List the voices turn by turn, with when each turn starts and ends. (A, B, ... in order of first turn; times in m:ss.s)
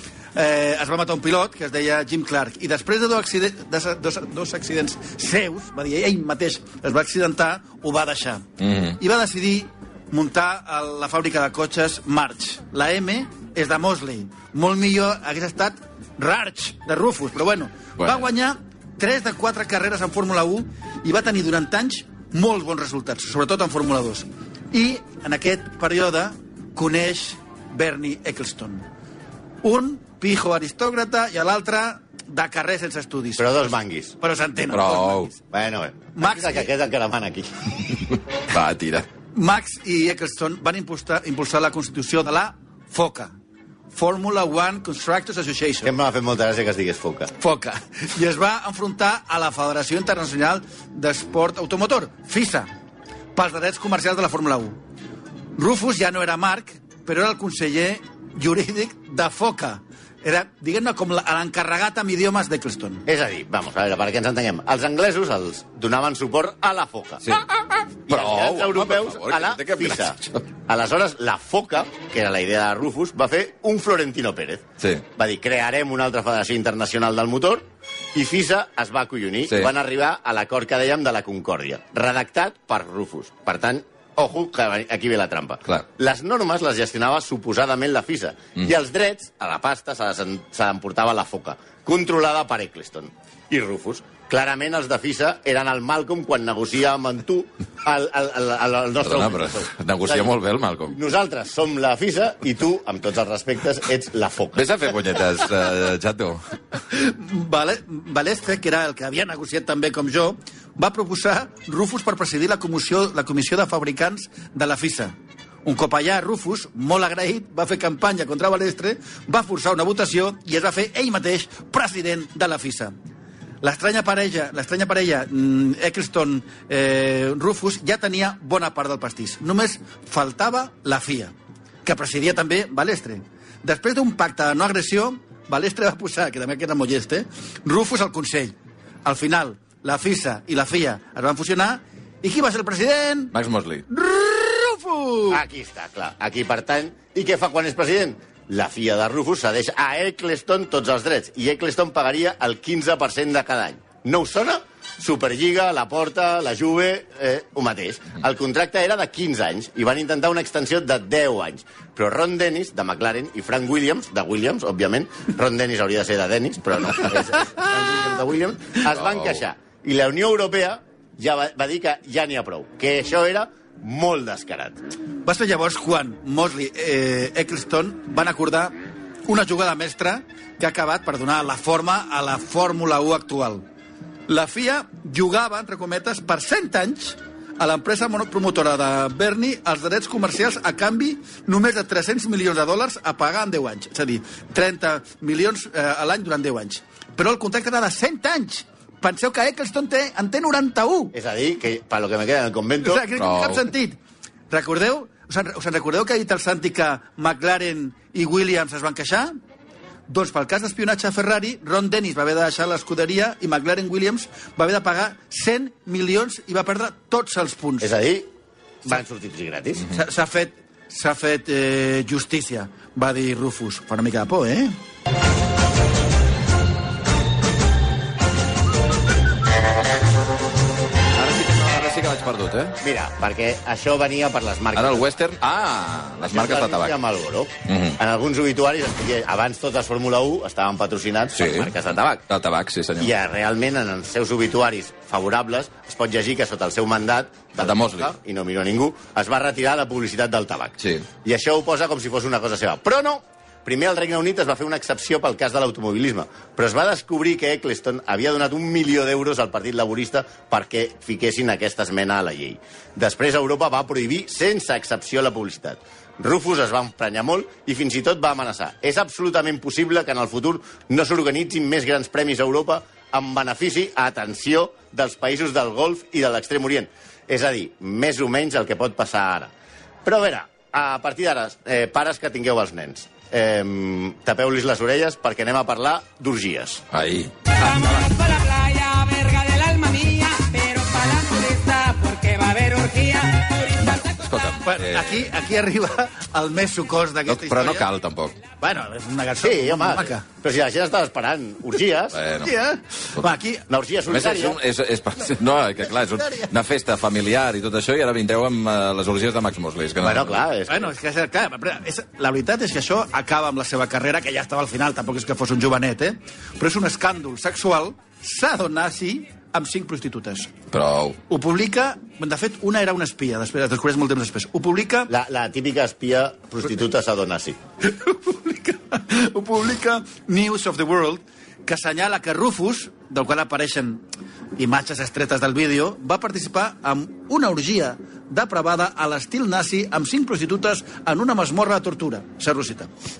0:00.4-0:08.4 A
0:08.6-0:09.0 B
0:09.0-0:28.9 A
0:18.0-0:18.2 B
0:29.6-0:33.7 A
0:33.4-0:34.2 C
0:34.2-0:35.4 A
0:34.7-0:35.3 B
0:35.5-0:37.7 C
0:36.2-0:36.7 A
0:38.5-0:39.1 B
0:39.4-0:43.4 A
0:43.9-0:45.9 A
0:45.8-0:47.3 C
0:47.4-0:52.7 A
0:53.4-0:54.8 A
0:55.6-1:03.0 A
1:03.1-1:07.4 C
1:08.1-1:10.4 B
1:08.1-1:40.3 C
1:39.0-1:41.0 B
1:40.9-1:44.7 C
1:44.6-1:46.5 B
1:46.9-2:03.0 A
2:03.6-2:11.3 A
2:11.8-2:23.3 A
2:23.3-2:23.8 B
2:23.9-2:25.4 A
2:25.3-2:54.8 C
2:49.0-2:49.3 B
2:55.2-2:58.8 A
2:59.3-3:03.6 A
3:04.3-3:21.1 A
3:21.1-3:23.0 C
3:22.8-3:24.0 A
3:23.2-3:23.7 B
3:24.5-3:29.4 A
3:30.1-3:37.9 A
3:37.8-3:38.3 C
3:38.8-3:39.9 C
3:39.9-3:44.8 A
3:51.2-3:52.8 B
3:52.8-3:55.2 C
3:54.8-3:57.0 B
3:56.2-4:02.2 C
3:57.7-3:58.0 B
4:01.4-4:01.7 B
4:02.3-4:03.1 B
4:03.0-4:39.5 C
4:07.6-4:08.1 B
4:10.8-4:11.0 B
4:40.0-4:46.9 C
4:46.9-4:47.8 B
4:47.6-4:54.0 D
4:53.8-4:55.3 B
4:54.6-4:57.9 A
4:57.3-4:58.4 B
4:58.6-5:00.2 A
4:59.4-5:02.2 C
5:02.1-5:02.5 B
5:02.4-5:03.7 A
5:03.7-5:04.6 C
5:04.1-5:10.4 B
5:06.2-5:06.5 A
5:10.0-5:10.9 C
5:10.7-5:20.6 A
5:20.7-5:21.2 B
5:21.3-5:25.1 A
5:25.1-5:27.6 C
5:27.8-5:34.0 A
5:34.6-5:42.9 A